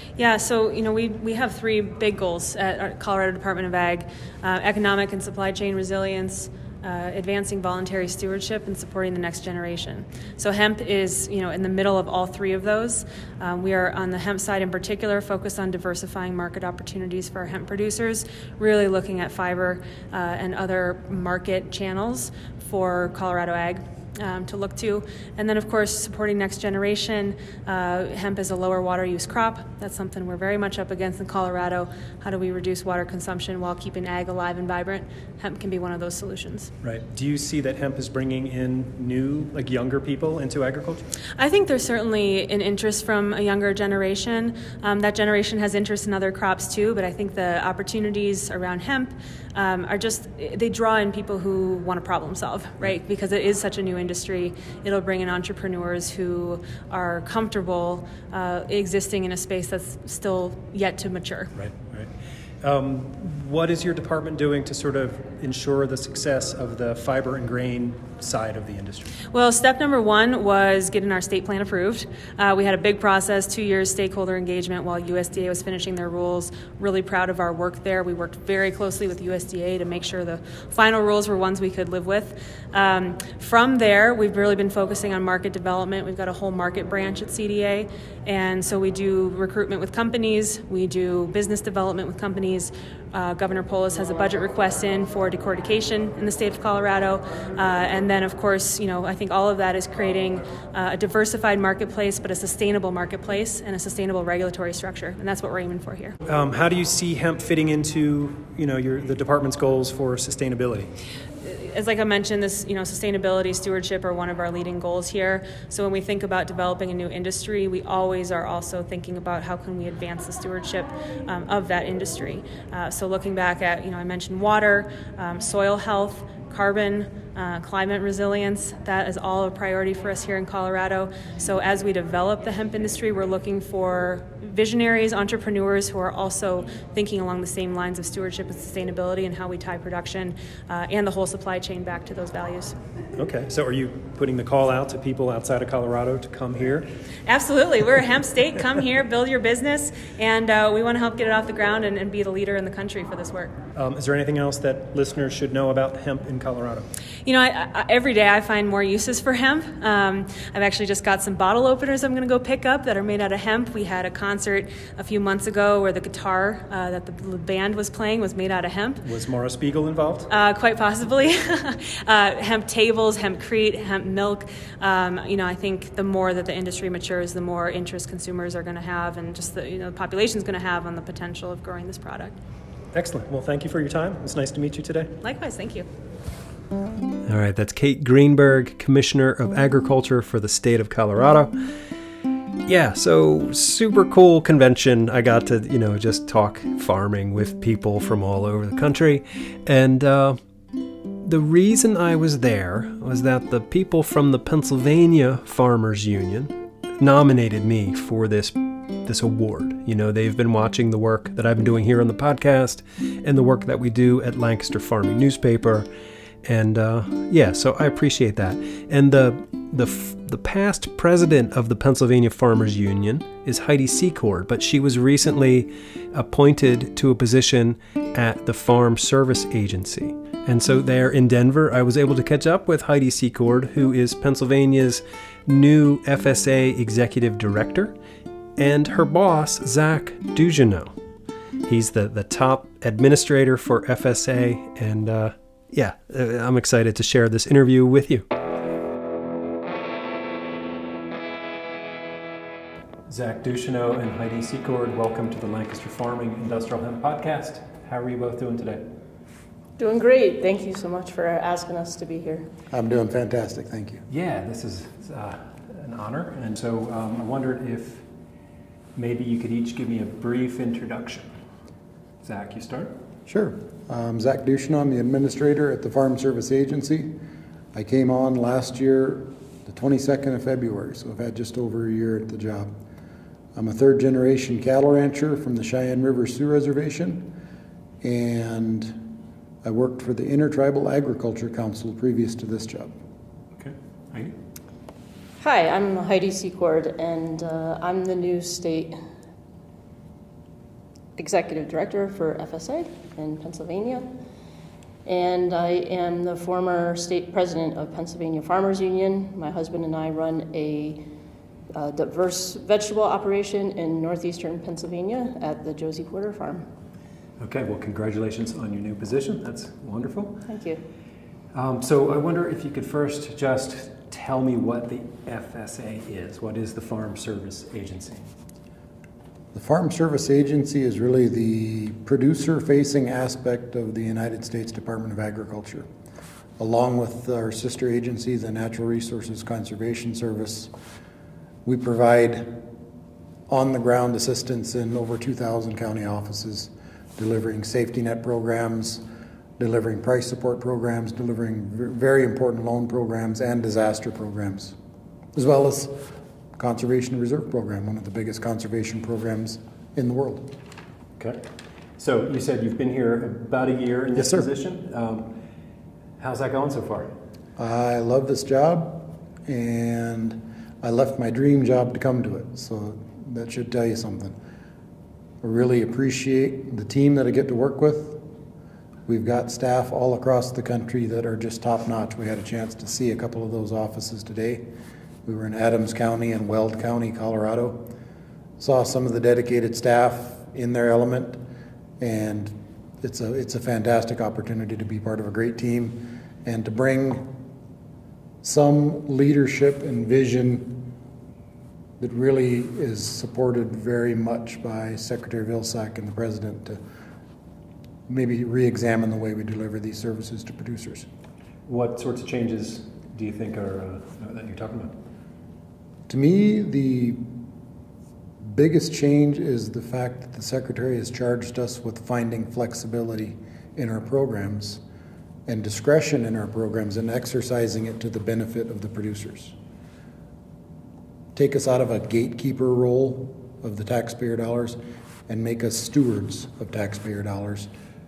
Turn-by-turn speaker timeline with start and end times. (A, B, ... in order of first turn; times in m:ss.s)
0:00.2-0:36.7 A
0:36.8-0:41.1 B
0:41.4-1:01.5 A
1:01.6-1:09.2 B
1:09.3-1:46.2 A
1:46.3-1:50.9 B
1:51.4-2:22.8 A
2:23.2-2:26.9 B
2:27.3-2:33.5 A
2:33.8-2:36.9 B
2:37.3-2:49.0 A
2:49.0-2:50.3 B
2:50.3-3:02.4 A
3:02.9-3:05.1 B
3:05.2-3:05.9 A
3:07.3-3:11.5 B
3:12.7-3:20.4 B
3:21.2-3:35.9 B
3:36.4-3:58.0 B
3:58.6-4:00.9 B
4:01.6-4:08.3 B
4:13.1-4:18.8 B
4:19.8-4:22.5 C
4:22.7-4:24.0 D
4:24.1-4:28.0 B
4:29.0-4:31.3 B
4:32.2-4:32.9 B
4:33.3-4:37.2 D
4:37.7-4:42.7 D
4:43.6-4:47.4 D
4:48.0-4:49.1 D
4:49.6-4:52.9 D
4:53.6-4:54.3 B
4:55.4-4:59.0 C
5:01.2-5:04.1 C
5:05.0-5:11.1 C
5:11.7-5:16.7 C
5:17.4-5:20.4 B
5:20.5-5:20.8 C
5:21.5-5:28.2 B
5:29.5-5:35.9 D
5:36.6-5:40.7 D
5:41.6-5:42.6 D
5:43.5-5:49.0 D
5:49.6-5:54.8 D
5:55.4-6:00.5 D
6:01.2-6:01.4 B
6:02.0-6:05.4 B
6:04.2-6:04.5 D
6:06.2-6:07.1 B
6:07.6-6:14.4 D
6:15.4-6:18.2 D
6:19.1-6:24.7 D
6:25.3-6:27.9 D
6:28.6-6:31.4 D
6:32.0-6:37.3 D
6:38.4-6:40.9 D
6:42.0-6:46.8 D
6:48.1-6:51.1 D
6:51.7-6:54.9 B
6:56.1-6:57.3 D
6:58.4-7:04.8 D
7:05.5-7:09.6 D
7:11.4-7:17.7 D